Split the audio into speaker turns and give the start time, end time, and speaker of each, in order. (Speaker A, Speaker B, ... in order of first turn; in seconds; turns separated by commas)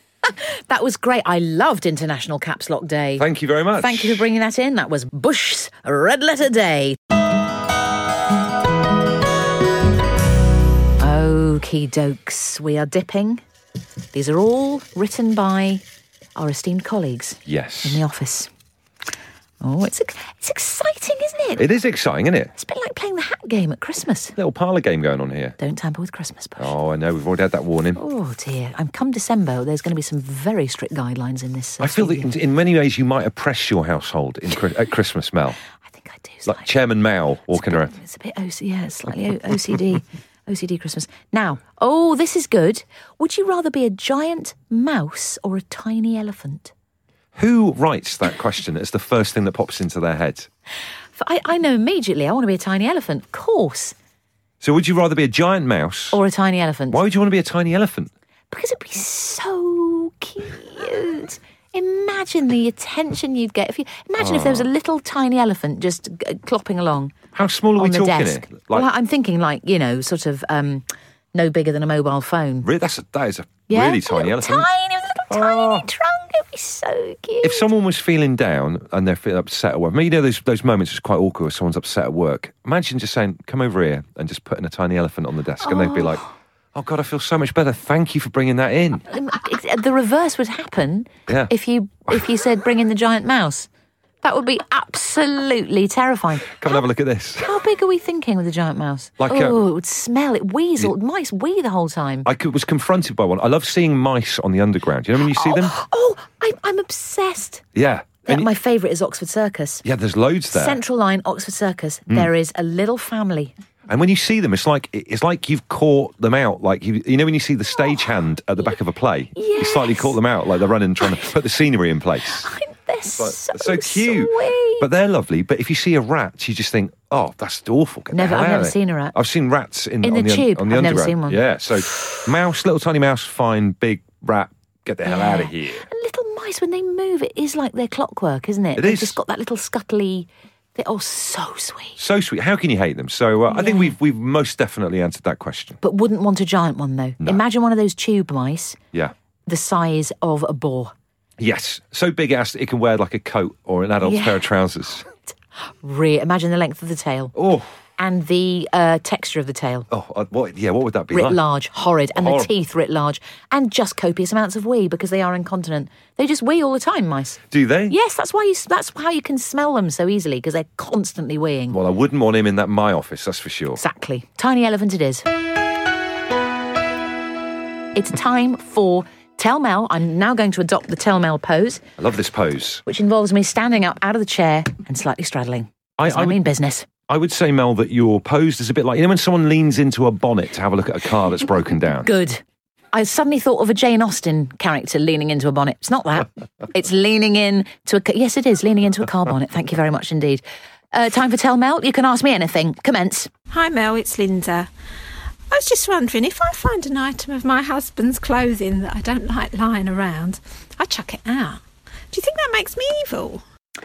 Speaker A: 0.2-7.0, Speaker B: 3.2-4.2, Speaker A: 11.0-13.4, Speaker A: 14.1-15.8, Speaker A: 16.4-18.5, Speaker B: 17.4-18.0, Speaker A: 19.6-21.6, Speaker B: 21.6-22.5, Speaker A: 22.6-24.4, Speaker B: 24.4-25.6, Speaker A: 25.6-26.7, Speaker B: 26.6-28.0, Speaker A: 27.9-32.3, Speaker B: 31.8-35.6, Speaker A: 35.9-36.6, Speaker B: 36.5-37.9, Speaker A: 37.5-46.7, Speaker B: 47.4-50.5, Speaker A: 51.1-53.9, Speaker B: 54.6-56.2, Speaker A: 56.1-57.0, Speaker B: 56.9-58.1, Speaker A: 58.5-67.1, Speaker B: 64.2-64.7, Speaker B: 67.3-68.9, Speaker A: 67.8-72.7, Speaker B: 72.6-74.7, Speaker A: 73.7-77.7, Speaker B: 75.3-75.9, Speaker B: 77.4-86.2, Speaker A: 85.6-86.2, Speaker B: 86.7-89.0, Speaker A: 89.1-93.7, Speaker A: 94.2-96.8, Speaker B: 96.5-97.5, Speaker A: 97.4-102.3, Speaker B: 99.2-99.6, Speaker B: 102.2-105.8, Speaker A: 105.2-107.6, Speaker B: 107.7-108.5, Speaker A: 108.3-109.8, Speaker B: 109.8-110.8, Speaker A: 110.5-113.5, Speaker B: 113.9-122.5, Speaker A: 119.3-120.1, Speaker A: 122.4-124.8, Speaker B: 123.2-135.9, Speaker A: 128.1-129.1, Speaker A: 130.0-131.4, Speaker A: 135.0-142.0, Speaker B: 138.8-139.2, Speaker B: 142.0-145.8, Speaker A: 143.5-143.9, Speaker A: 145.8-148.8, Speaker A: 149.4-150.9, Speaker B: 151.4-155.0, Speaker A: 154.0-154.4, Speaker A: 155.8-157.3, Speaker B: 157.3-157.6, Speaker A: 158.0-159.9, Speaker B: 159.9-161.4, Speaker A: 161.1-171.8, Speaker B: 162.2-162.5, Speaker B: 167.5-167.9, Speaker B: 171.7-173.8, Speaker A: 173.7-175.2, Speaker A: 177.9-181.8, Speaker B: 182.0-182.8, Speaker A: 182.8-186.9, Speaker B: 186.0-186.4, Speaker B: 187.1-192.1, Speaker A: 192.0-192.4, Speaker A: 192.9-200.4, Speaker A: 200.9-203.3, Speaker C: 203.5-204.7, Speaker C: 205.5-213.4